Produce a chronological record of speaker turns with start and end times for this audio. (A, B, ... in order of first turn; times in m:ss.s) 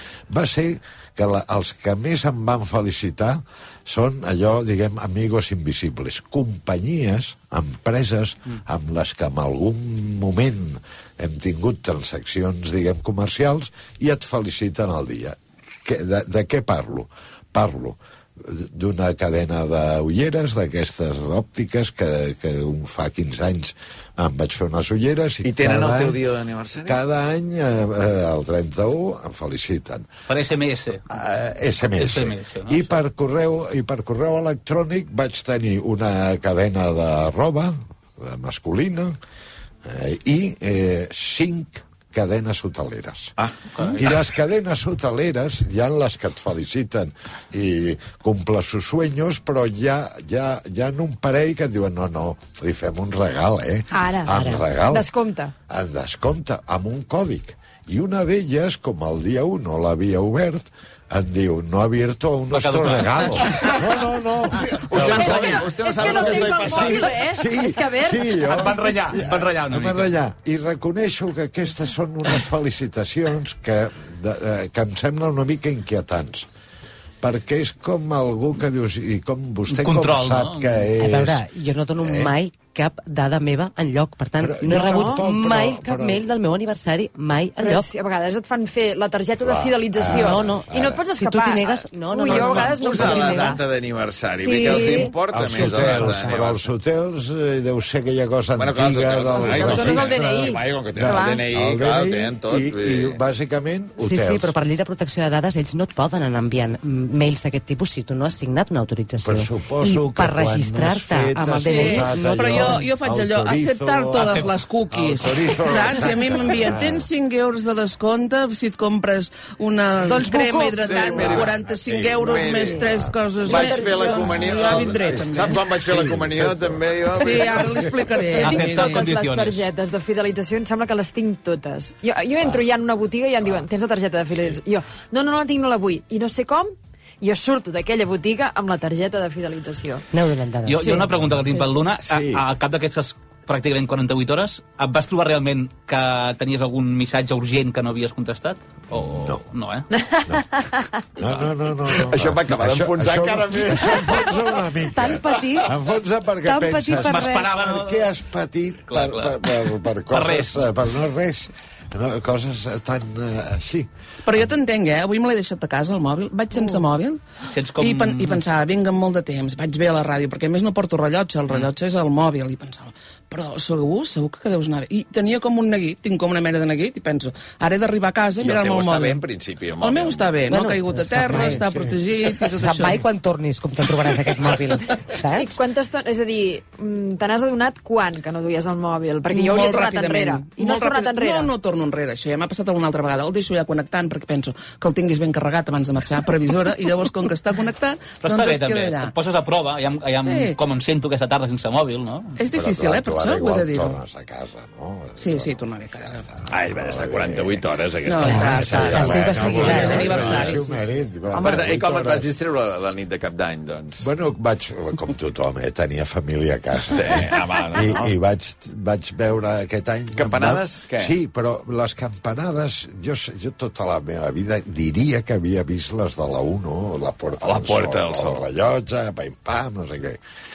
0:00.3-0:26.2 A
0:25.4-0:27.0 B
0:26.8-0:30.1 A
0:30.3-0:31.0 C
0:31.1-0:39.1 A
0:31.9-0:32.9 C
0:39.8-0:43.3 A
0:43.4-0:44.1 B
0:43.7-0:44.0 C
0:43.8-0:55.1 A
0:53.9-0:55.5 D
0:55.7-1:16.5 A
1:02.5-1:03.6 C
1:04.5-1:07.1 B
1:04.9-1:08.8 D
1:08.4-1:10.1 C
1:17.2-1:21.4 A
1:19.7-1:20.9 C
1:21.0-1:27.9 E
1:22.0-1:22.3 A
1:24.4-1:26.2 A
1:24.6-1:25.3 D
1:27.6-1:33.6 D
1:29.4-1:31.0 A
1:30.2-1:33.5 E
1:32.3-1:36.7 B
1:34.4-1:35.1 D
1:34.6-1:36.3 E
1:35.3-1:44.5 A
1:38.5-1:43.2 B
1:39.3-1:41.4 D
1:44.0-1:52.7 E
1:49.2-1:57.1 A
1:51.6-2:05.6 F
1:54.2-1:54.5 C
2:00.6-2:02.8 B
2:01.0-2:03.1 A
2:02.2-2:02.8 D
2:03.4-2:04.7 D
2:03.4-2:07.8 B
2:04.1-2:08.3 A
2:07.1-2:09.0 F
2:08.3-2:20.1 D
2:08.4-2:09.7 C
2:20.1-2:20.9 E
2:20.7-2:29.9 C
2:20.8-2:21.1 D
2:22.0-2:22.4 A
2:28.9-2:29.4 A
2:31.2-2:44.5 A
2:32.1-2:34.4 B
2:34.9-2:35.7 E
2:36.4-2:37.5 E
2:36.9-2:38.1 C
2:38.9-2:40.6 C
2:44.2-2:47.2 F
2:47.5-2:48.4 C
2:47.7-2:59.2 F
2:58.4-3:00.6 B
2:59.8-3:03.1 F
3:00.5-3:01.6 E
3:01.1-3:02.0 A
3:02.5-3:05.6 E
3:05.3-3:11.5 D
3:09.3-3:19.1 F
3:18.2-3:22.4 C
3:20.2-3:20.6 F
3:22.4-3:24.0 F
3:22.5-3:27.6 A
3:25.2-3:26.2 F
3:26.5-3:30.6 B
3:28.0-3:30.9 F
3:28.2-3:32.3 A
3:28.2-3:29.9 E
3:31.4-3:34.1 B
3:34.0-3:50.2 A
3:36.9-3:38.1 B
3:40.1-3:41.1 B
3:47.4-3:48.4 B